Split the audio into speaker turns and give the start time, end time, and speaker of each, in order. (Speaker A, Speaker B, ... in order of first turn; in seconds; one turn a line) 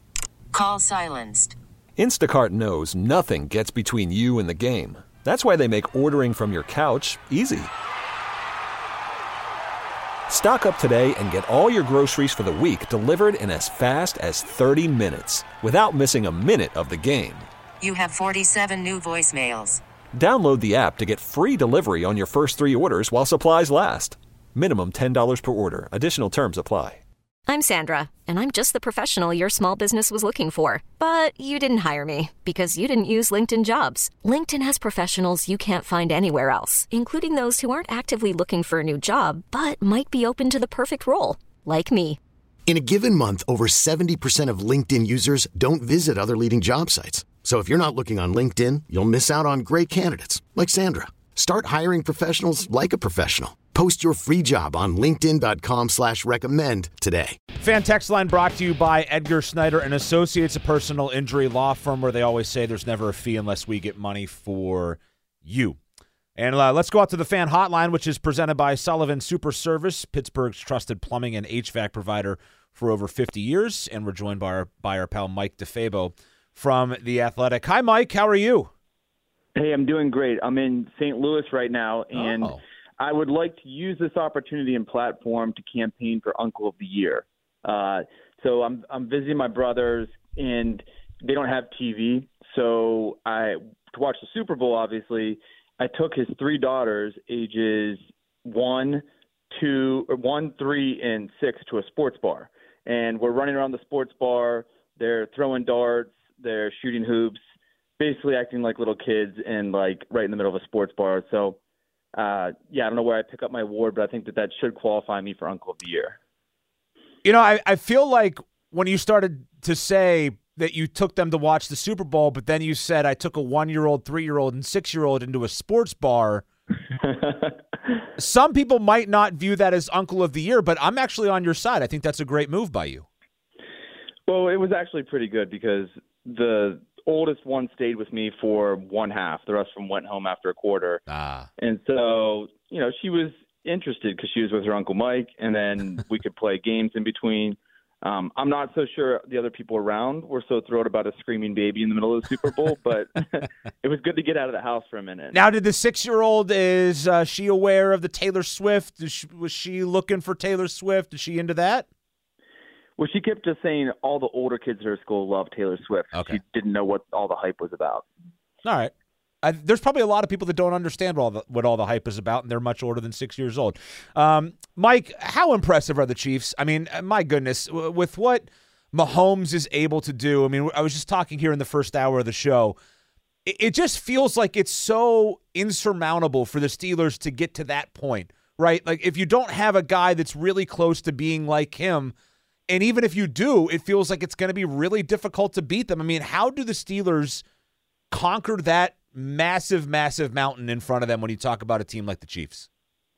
Speaker A: 0.5-1.6
Speaker B: 2.0-7.7
Speaker B: 10.3-17.5
Speaker A: 17.8-19.8
Speaker B: 20.1-27.0
Speaker C: 27.5-42.2
Speaker D: 42.7-57.4
Speaker E: 57.6-65.8
Speaker E: 66.3-78.7
Speaker F: 79.5-107.4
Speaker E: 82.1-82.6
Speaker F: 108.0-111.6
Speaker F: 112.1-116.2
Speaker E: 117.2-126.4
Speaker E: 128.2-133.1
Speaker F: 134.3-141.0
Speaker E: 141.1-141.5
Speaker F: 141.6-155.4
Speaker E: 155.3-161.8
Speaker F: 163.0-168.1
Speaker E: 166.1-166.4
Speaker E: 168.6-168.9
Speaker E: 169.4-182.8
Speaker E: 183.4-192.1
Speaker E: 192.7-197.4
Speaker E: 198.1-202.7